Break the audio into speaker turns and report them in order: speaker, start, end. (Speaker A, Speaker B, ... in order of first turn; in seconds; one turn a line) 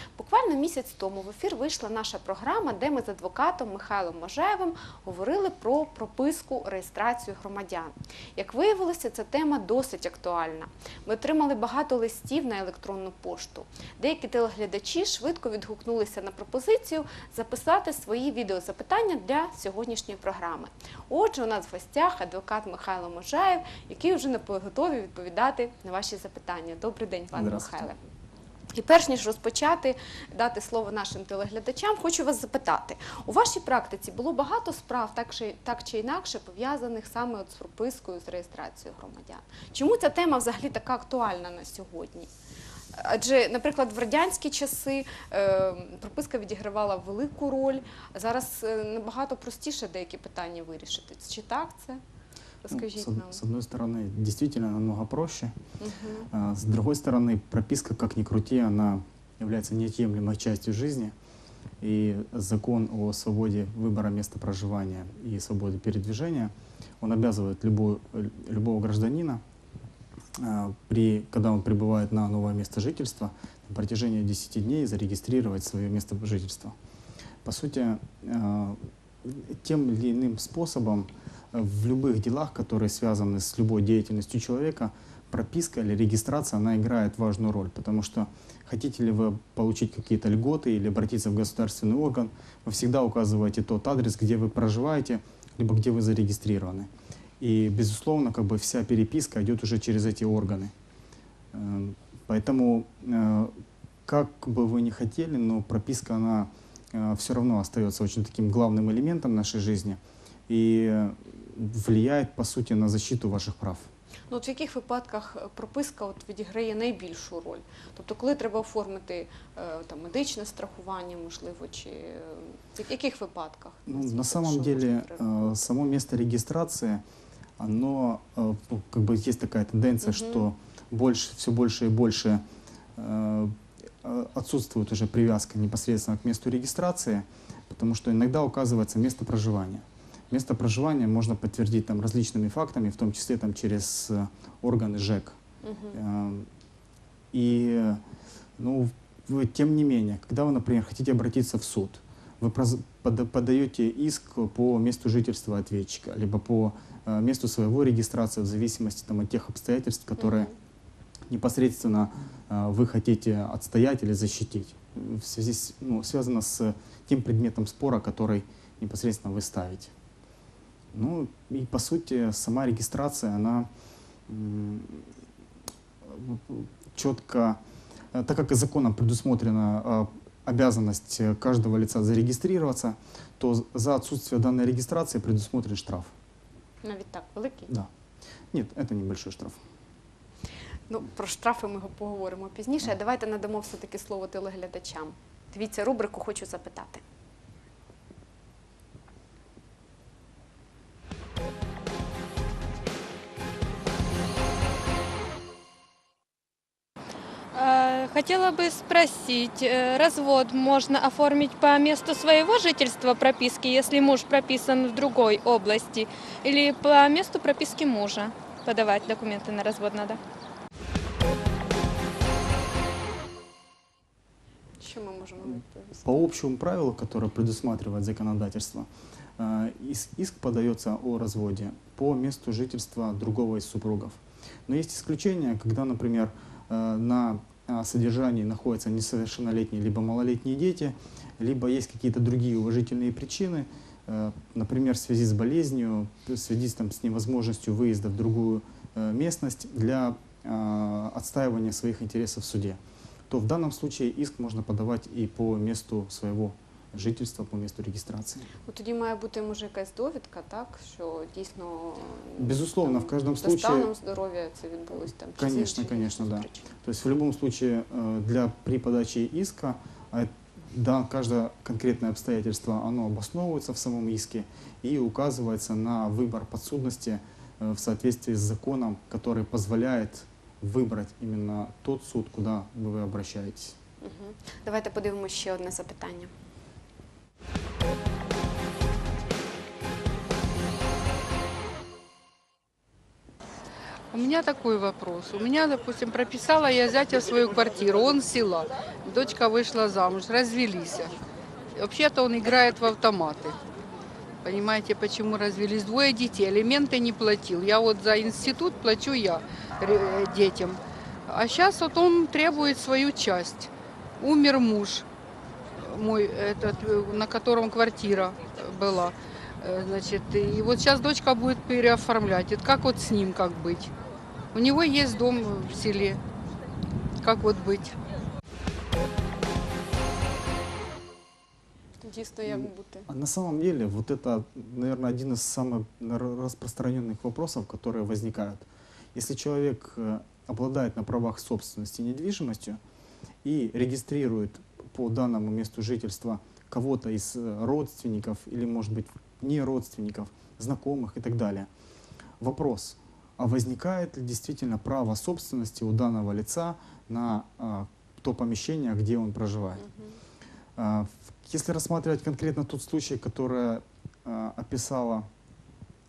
Speaker A: 0.2-28.0
Speaker B: 27.3-27.9
Speaker A: 28.7-42.3
Speaker A: 42.9-52.0
Speaker A: 52.6-53.4
Speaker B: 52.7-55.6
Speaker A: 55.8-56.3
Speaker B: 56.3-61.1
Speaker B: 61.8-69.4
Speaker B: 70.4-76.8
Speaker B: 77.4-100.7
Speaker B: 101.5-113.9
Speaker A: 114.3-125.5
Speaker B: 123.9-127.0
Speaker B: 127.6-132.4
Speaker A: 130.0-130.5
Speaker B: 133.0-145.4
Speaker A: 145.6-146.0
Speaker B: 145.9-146.5
Speaker B: 147.3-148.0
Speaker B: 148.6-160.5
Speaker A: 160.2-160.5
Speaker B: 161.3-169.9
Speaker B: 170.9-173.7
Speaker B: 174.3-175.1
Speaker B: 176.0-177.6
Speaker B: 178.1-186.1
Speaker A: 186.8-187.7
Speaker B: 188.5-189.6
Speaker A: 190.9-197.0
Speaker C: 207.5-220.2
Speaker A: 224.8-226.3
Speaker B: 226.1-258.5
Speaker A: 258.7-266.7
Speaker B: 262.4-263.9
Speaker B: 265.4-283.8
Speaker A: 284.0-286.3
Speaker D: 294.1-301.2
Speaker D: 301.8-303.6
Speaker D: 304.4-315.1
Speaker D: 315.8-323.9
Speaker D: 324.5-326.2
Speaker D: 327.2-328.0
Speaker A: 332.0-333.1
Speaker B: 332.5-342.8
Speaker B: 343.4-351.7
Speaker B: 352.4-359.9
Speaker A: 359.8-360.1
Speaker B: 360.8-365.3